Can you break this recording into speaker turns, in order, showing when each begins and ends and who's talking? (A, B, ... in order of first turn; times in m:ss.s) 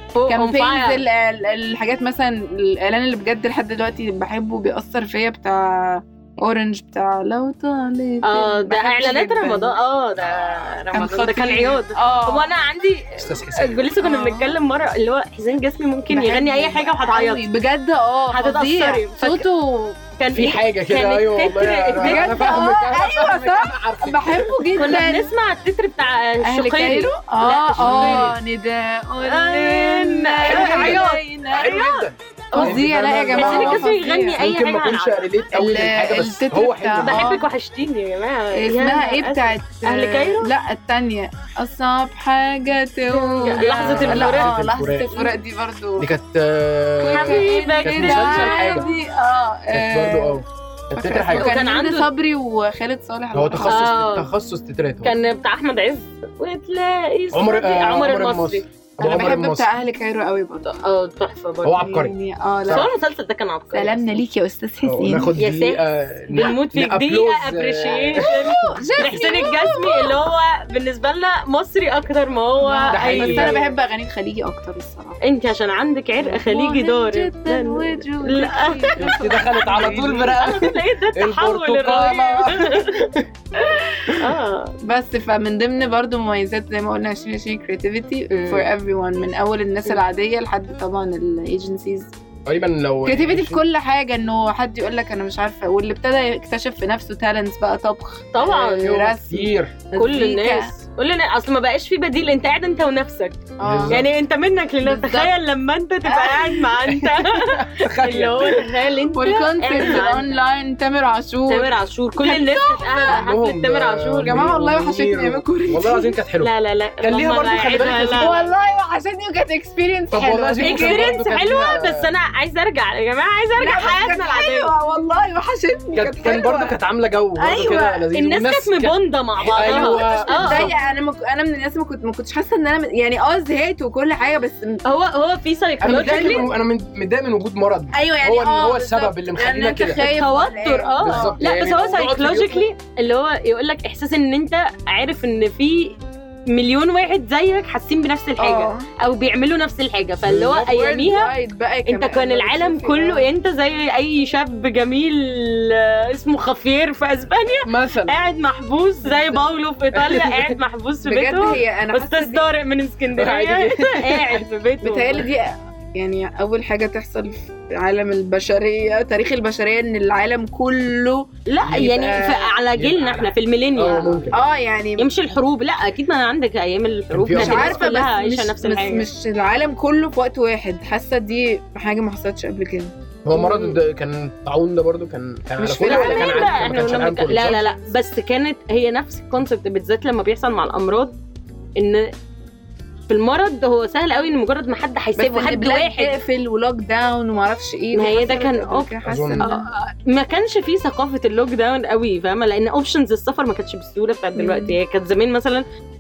0:00.2-0:01.0 A
0:00.3-0:09.8 B
0:08.2-0:17.5 A
0:10.2-0:10.8 C
0:10.9-0:12.5 B
0:13.2-0:13.9 C
0:14.0-0:14.6 B
0:16.1-0:20.0 B
0:18.3-0:19.4 A
0:20.2-0:22.6 A
0:20.3-0:24.5 C
0:22.0-0:25.3 B
0:24.8-0:28.3 A
0:26.5-0:31.8 B
0:27.8-0:28.4 C
0:29.2-0:35.2 A
0:30.5-0:37.3 C
0:32.5-0:34.4 B
0:35.6-0:37.5 B
0:37.0-0:40.5 A
0:38.5-0:46.1 B
0:43.1-0:44.5 A
0:43.7-0:45.3 C
0:46.0-0:48.9 C
0:47.0-0:50.4 B
0:47.1-0:49.0 A
0:49.7-0:51.5 C
0:51.0-0:53.9 B
0:51.3-0:52.1 A
0:53.3-0:55.1 C
0:53.6-0:54.3 A
0:55.0-0:58.7 A
0:57.3-0:59.7 C
0:59.0-1:00.7 B
1:00.6-1:01.8 A
1:01.6-1:02.1 C
1:01.8-1:02.9 B
1:02.7-1:04.2 A
1:03.7-1:05.4 B
1:04.8-1:08.8 C
1:05.4-1:13.7 A
1:08.3-1:10.2 B
1:12.6-1:15.2 B
1:12.9-1:13.6 C
1:15.2-1:19.2 A
1:16.2-1:20.4 B
1:19.0-1:23.2 C
1:20.3-1:23.0 A
1:24.2-1:24.7 A
1:24.9-1:32.1 B
1:28.3-1:28.7 A
1:32.5-1:33.6 C
1:33.0-1:40.7 B
1:38.3-1:38.9 A
1:38.8-1:39.8 C
1:40.0-1:43.4 A
1:43.6-1:44.1 B
1:43.6-1:44.0 C
1:43.9-1:50.3 A
1:44.8-1:45.4 B
1:46.0-1:46.8 B
1:47.1-1:48.7 C
1:49.2-1:53.3 B
1:51.5-1:54.5 A
1:53.1-1:56.5 C
1:54.2-1:56.2 B
1:56.4-1:58.5 A
1:57.0-1:58.4 C
1:57.7-2:01.2 B
2:00.1-2:02.1 C
2:00.6-2:04.7 A
2:03.6-2:06.8 B
2:06.0-2:10.7 C
2:07.4-2:08.1 B
2:08.1-2:10.7 A
2:09.6-2:14.8 B
2:14.8-2:16.5 A
2:15.8-2:16.5 B
2:15.8-2:20.1 C
2:17.9-2:21.4 B
2:20.0-2:26.0 A
2:21.0-2:22.7 C
2:26.5-2:31.3 A
2:28.4-2:28.8 B
2:30.2-2:30.7 C
2:30.6-2:33.3 B
2:31.9-2:45.3 A
2:37.6-2:38.2 C
2:39.0-2:39.5 B
2:40.0-2:40.5 C
2:41.0-2:42.5 B
2:43.1-2:44.4 C
2:44.8-2:52.5 B
2:51.5-2:54.4 A
2:51.6-2:52.1 C
2:52.8-2:54.4 C
2:53.9-2:55.1 B
2:55.0-2:59.1 A
2:57.1-2:57.8 C
2:57.4-3:02.9 B
3:03.2-3:07.6 C
3:03.4-3:03.8 A
3:05.6-3:06.7 B
3:05.8-3:11.2 A
3:11.8-3:12.0 A
3:13.1-3:16.2 A
3:15.2-3:19.7 B
3:17.9-3:25.6 A
3:19.1-3:19.5 C
3:24.4-3:24.8 B